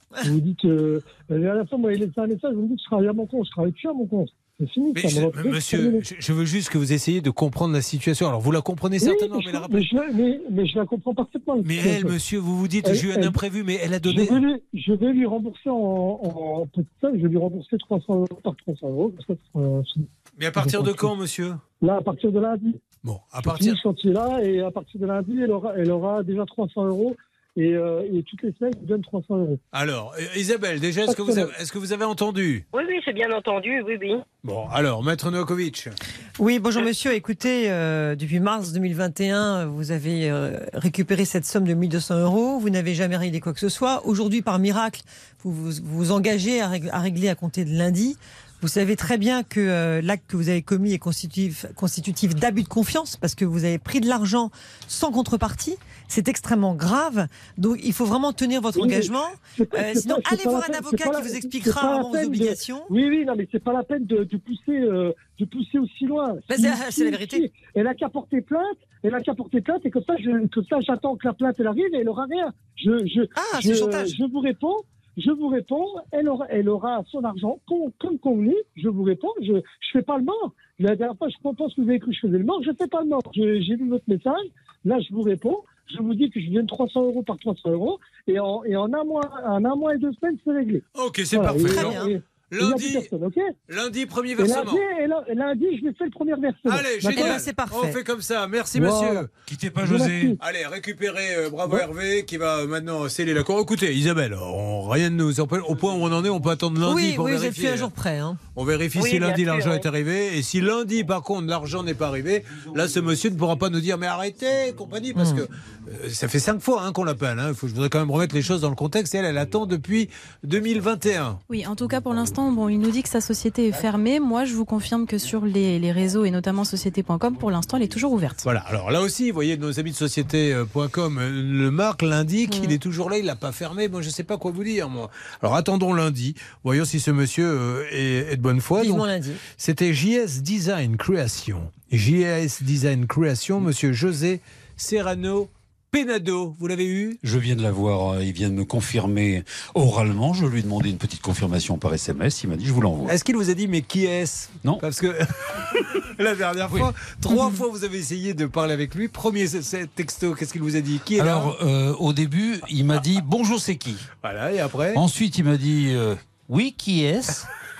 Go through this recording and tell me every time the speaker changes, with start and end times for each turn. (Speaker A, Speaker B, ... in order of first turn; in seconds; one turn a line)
Speaker A: 0.2-6.0
Speaker B: 4.9-9.9
Speaker A: 9.0-12.2
Speaker B: 11.6-14.4
Speaker A: 12.8-13.4
Speaker A: 14.1-21.1
Speaker B: 20.4-21.6
Speaker A: 21.8-22.8
Speaker B: 23.0-23.8
Speaker A: 23.4-29.6
Speaker B: 29.7-32.6
Speaker A: 31.0-31.5
Speaker C: 32.7-34.2
Speaker B: 34.4-35.9
Speaker D: 36.4-62.9
Speaker A: 58.7-93.5
Speaker D: 66.5-67.4
Speaker D: 73.3-74.2
Speaker B: 91.0-93.1
Speaker D: 91.6-92.1
Speaker B: 93.7-94.8
Speaker A: 94.4-97.4
Speaker B: 96.7-99.3
Speaker D: 97.1-98.0
Speaker A: 98.7-99.3
Speaker E: 99.5-100.3
Speaker A: 99.8-100.4
Speaker B: 100.4-107.9
Speaker D: 106.8-108.4
Speaker B: 108.5-121.4
Speaker C: 108.9-109.8
Speaker D: 115.2-115.4
Speaker F: 121.5-128.4
Speaker B: 128.4-147.2
Speaker F: 132.5-132.7
Speaker D: 138.8-139.4
Speaker E: 147.2-153.1
Speaker B: 153.1-155.3
Speaker B: 156.2-161.5
Speaker E: 161.2-164.1
Speaker B: 164.2-165.0
Speaker E: 164.9-167.4